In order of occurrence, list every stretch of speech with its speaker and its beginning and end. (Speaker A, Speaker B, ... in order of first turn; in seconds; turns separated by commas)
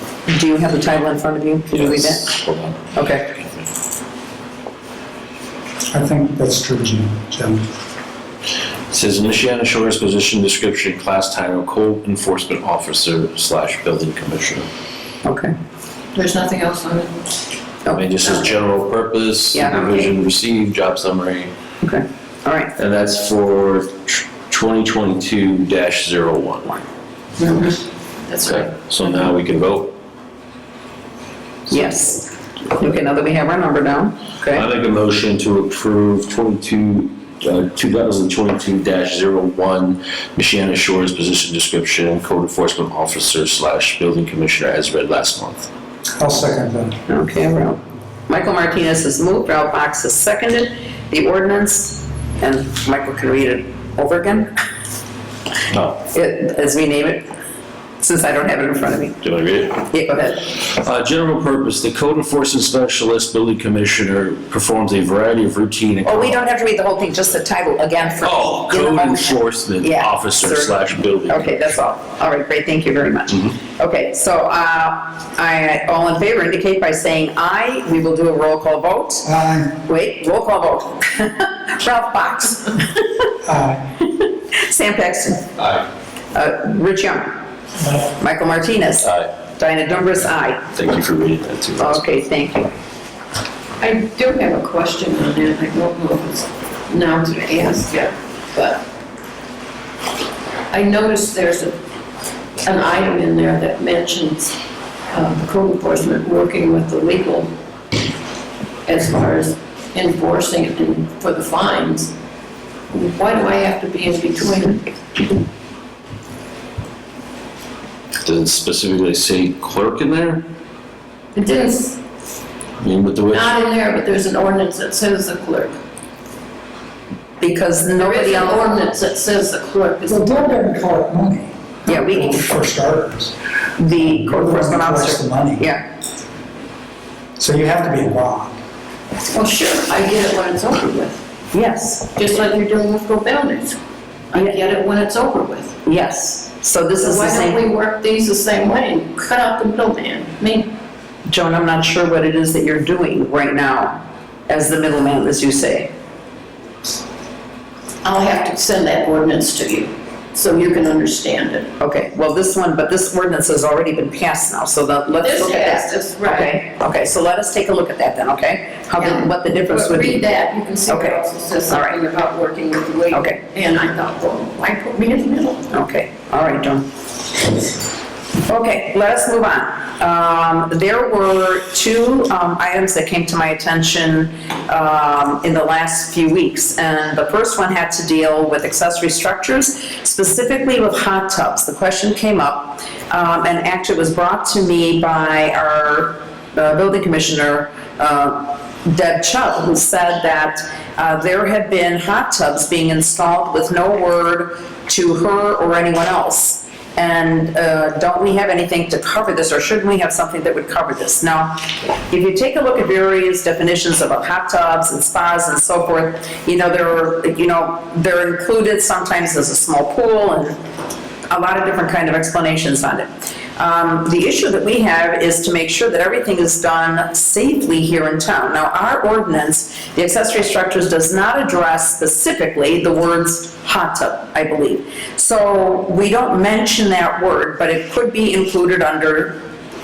Speaker A: 0.3-2.4, Speaker B: 1.7-3.7, Speaker A: 2.9-3.3, Speaker C: 5.9-7.7, Speaker B: 8.9-14.7, Speaker A: 15.2-15.5, Speaker D: 16.1-17.4, Speaker A: 17.9-18.5, Speaker B: 17.9-21.5, Speaker A: 19.5-20.1, Speaker A: 21.8-22.7, Speaker B: 22.8-26.8, Speaker D: 27.4-28.7, Speaker B: 28.4-29.9, Speaker A: 31.7-34.6, Speaker B: 34.5-45.7, Speaker C: 46.2-47.0, Speaker A: 47.1-54.5, Speaker B: 55.7-56.0, Speaker A: 56.1-57.3, Speaker A: 58.0-59.2, Speaker B: 59.2-59.8, Speaker A: 59.8-60.5, Speaker B: 60.6-66.4, Speaker A: 66.0-70.8, Speaker B: 68.2-71.6, Speaker A: 71.3-83.1, Speaker C: 79.2-79.7, Speaker C: 83.4-83.9, Speaker A: 84.2-85.5, Speaker B: 85.6-85.8, Speaker A: 86.3-87.4, Speaker C: 87.8-88.1, Speaker A: 88.2-90.7, Speaker B: 89.0-89.3, Speaker B: 90.7-92.0, Speaker A: 91.8-92.7, Speaker D: 93.8-98.8, Speaker D: 100.7-101.8, Speaker D: 102.6-104.5, Speaker D: 105.1-107.5, Speaker D: 108.9-112.1, Speaker D: 112.9-114.9, Speaker B: 118.2-120.4, Speaker D: 121.3-122.0, Speaker B: 122.8-123.5, Speaker D: 123.3-125.8, Speaker A: 127.4-128.7, Speaker D: 128.0-130.6, Speaker C: 130.1-133.3, Speaker A: 131.9-132.5, Speaker A: 133.8-135.8, Speaker C: 134.0-135.7, Speaker C: 137.4-138.6, Speaker D: 139.3-141.2, Speaker A: 141.5-142.1, Speaker D: 142.1-143.8, Speaker D: 144.3-145.8, Speaker A: 145.9-147.6, Speaker D: 147.0-150.7, Speaker A: 151.3-155.9, Speaker D: 158.0-161.7, Speaker A: 161.8-170.2, Speaker D: 165.2-166.6, Speaker D: 169.0-175.7, Speaker A: 170.9-171.9, Speaker A: 173.1-173.4, Speaker A: 175.7-176.9, Speaker A: 178.4-220.6, Speaker A: 221.3-239.4